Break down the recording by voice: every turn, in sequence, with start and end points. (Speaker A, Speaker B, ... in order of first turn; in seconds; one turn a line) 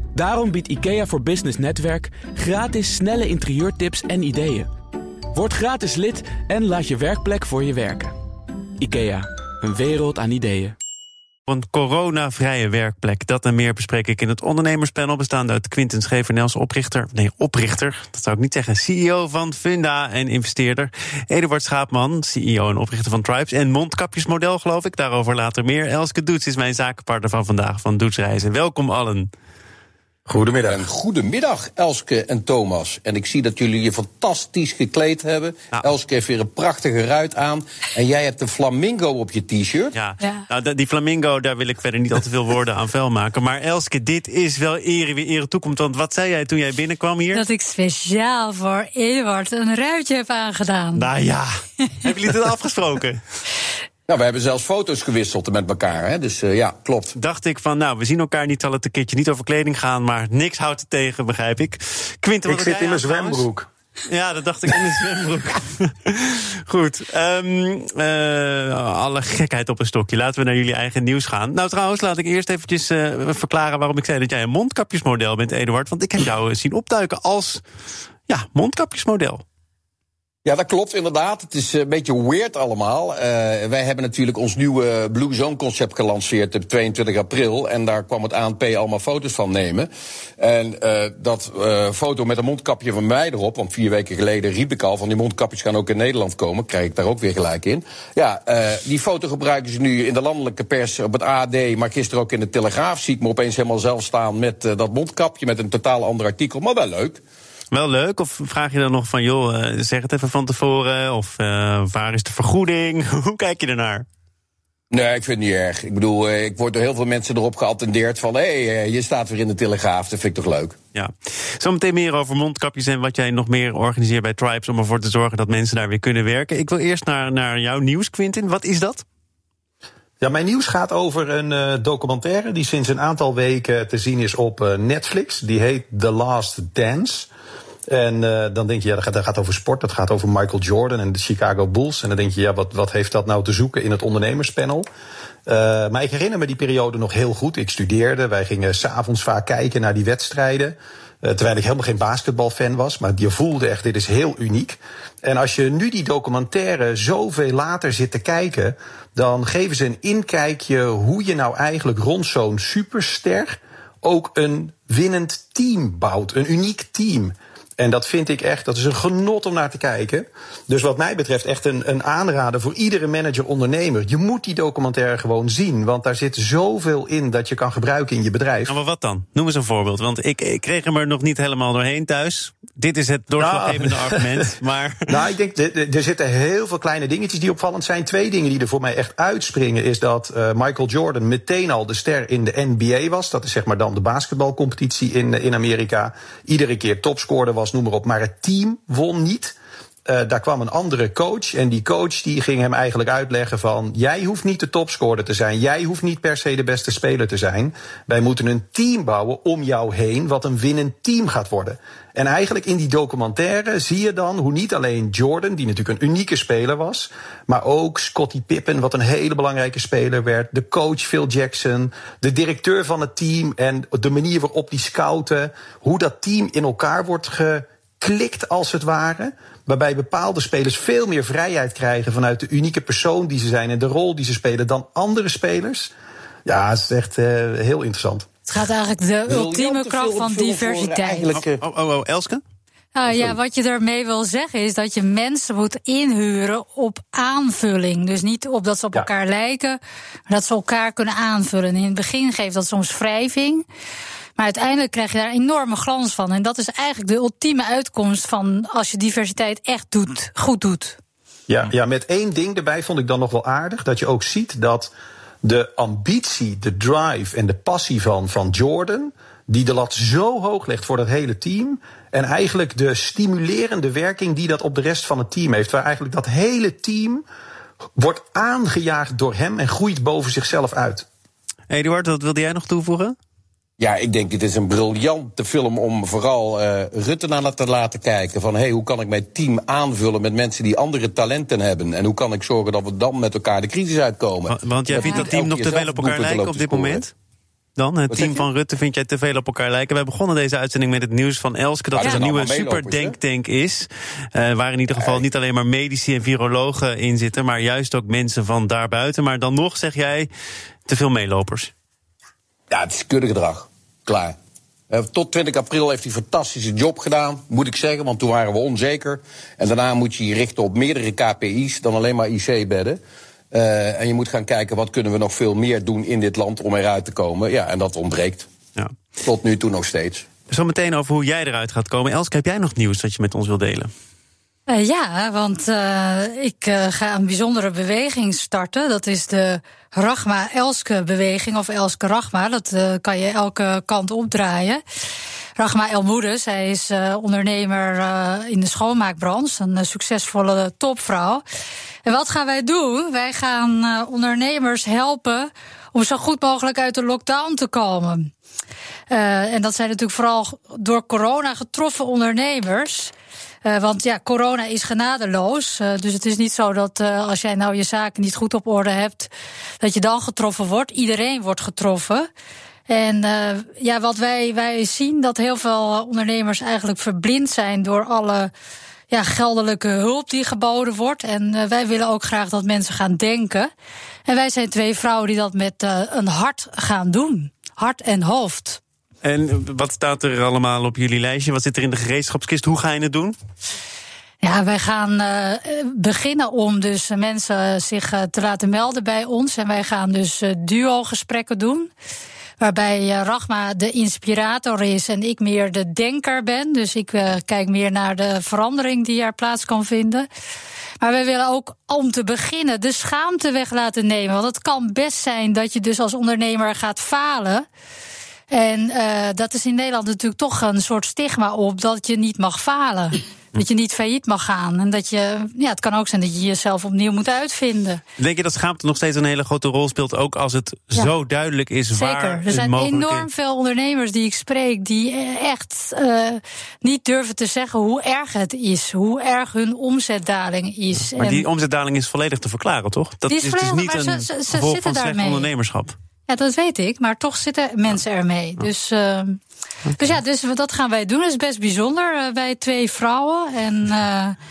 Speaker A: 0.1-4.7
Speaker A: 5.3-8.1
Speaker A: 8.8-10.8
Speaker B: 11.5-29.3
Speaker C: 30.3-30.8
Speaker D: 30.7-40.0
Speaker B: 39.9-47.4
Speaker E: 47.3-51.1
Speaker B: 51.0-51.5
Speaker B: 52.0-53.2
Speaker D: 54.1-57.1
Speaker B: 57.1-63.5
Speaker C: 62.5-63.7
Speaker B: 64.1-77.6
Speaker B: 78.3-79.4
Speaker D: 80.4-107.2
Speaker B: 107.7-114.0
Speaker D: 114.9-120.8
Speaker B: 120.9-129.0
Speaker C: 130.2-137.3
Speaker C: 137.9-144.9
Speaker C: 145.4-178.7
Speaker B: 178.7-185.1
Speaker C: 183.4-184.5
Speaker C: 185.1-235.9
Speaker C: 236.4-238.3
Speaker E: 238.5-241.3
Speaker D: 239.3-241.6
Speaker B: 241.3-242.4
Speaker E: 242.9-253.6
Speaker E: 254.4-261.0
Speaker C: 261.5-264.9
Speaker C: 265.4-277.2
Speaker C: 277.9-281.1
Speaker B: 281.7-283.1
Speaker D: 283.8-297.0
Speaker B: 294.5-297.1
Speaker E: 295.0-295.3
Speaker B: 297.8-310.3
Speaker D: 298.1-298.4
Speaker D: 301.9-303.1
Speaker D: 304.9-305.2
Speaker B: 310.9-311.7
Speaker D: 312.7-314.4
Speaker D: 314.9-323.0
Speaker D: 323.5-328.5
Speaker D: 329.2-330.3
Speaker B: 330.5-333.9
Speaker E: 334.7-344.8
Speaker E: 345.6-351.4
Speaker E: 352.0-358.3
Speaker E: 359.1-363.1
Speaker E: 363.6-372.3
Speaker E: 372.9-378.5
Speaker E: 379.1-383.7
Speaker E: 384.3-388.8
Speaker B: 389.2-393.3
Speaker E: 394.4-401.9
Speaker E: 402.6-410.3
Speaker E: 411.0-417.6
Speaker E: 418.5-428.0
Speaker B: 428.2-433.3
Speaker E: 431.9-441.4
Speaker B: 441.1-445.9
Speaker E: 443.3-445.5
Speaker E: 446.3-449.4
Speaker E: 450.0-454.4